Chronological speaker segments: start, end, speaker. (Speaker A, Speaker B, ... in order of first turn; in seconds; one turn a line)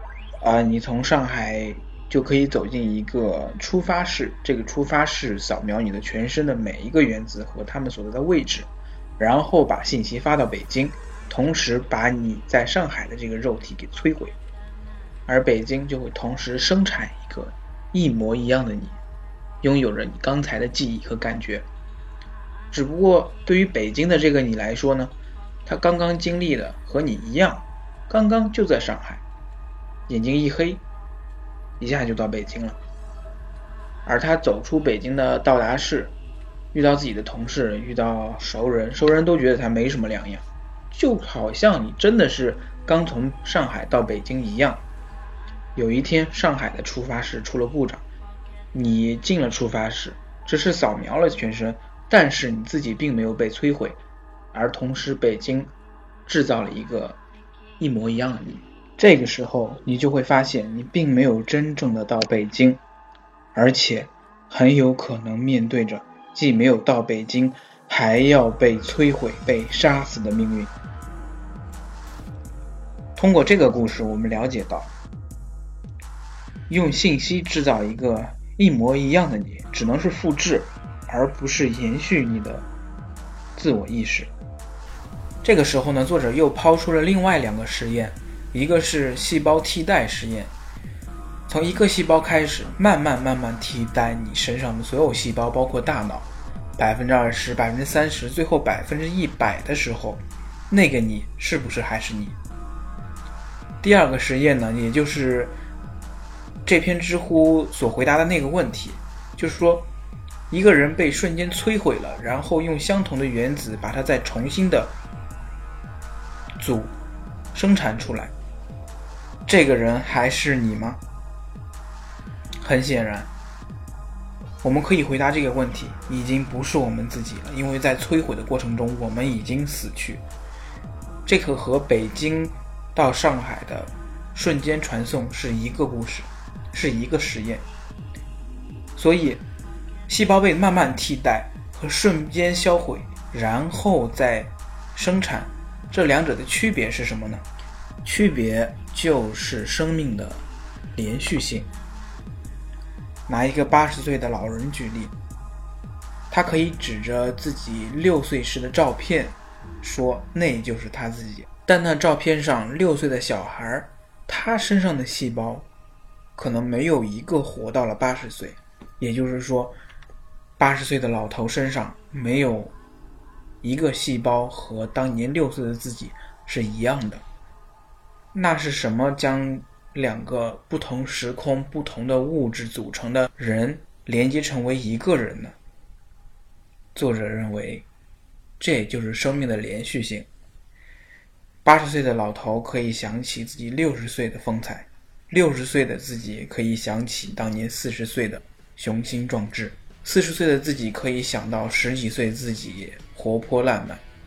Speaker A: 0.4-14.4
Speaker A: 15.3-19.0
Speaker A: 19.6-21.7
Speaker A: 22.7-25.1
Speaker A: 25.7-29.2
Speaker A: 30.1-30.8
Speaker A: 31.8-32.8
Speaker A: 34.1-36.1
Speaker A: 36.7-44.8
Speaker A: 45.8-48.0
Speaker A: 48.7-54.0
Speaker A: 54.5-55.7
Speaker A: 56.3-57.2
Speaker A: 57.8-62.8
Speaker A: 63.5-70.7
Speaker A: 73.2-74.9
Speaker A: 76.7-82.7
Speaker A: 83.6-84.3
Speaker A: 85.4-90.5
Speaker A: 91.5-102.4
Speaker A: 103.8-105.5
Speaker A: 106.6-109.9
Speaker A: 110.5-114.9
Speaker A: 116.6-116.9
Speaker A: 117.5-118.3
Speaker A: 119.5-121.0
Speaker A: 122.6-123.3
Speaker A: 124.6-130.2
Speaker A: 131.2-137.6
Speaker A: 138.9-139.4
Speaker A: 140.1-147.4
Speaker A: 148.1-150.4
Speaker A: 150.9-151.7
Speaker A: 153.3-155.1
Speaker A: 156.3-165.7
Speaker A: 166.4-169.8
Speaker A: 170.6-172.7
Speaker A: 173.6-177.2
Speaker A: 178.3-185.6
Speaker A: 186.9-187.9
Speaker A: 188.6-190.3
Speaker A: 191.6-204.0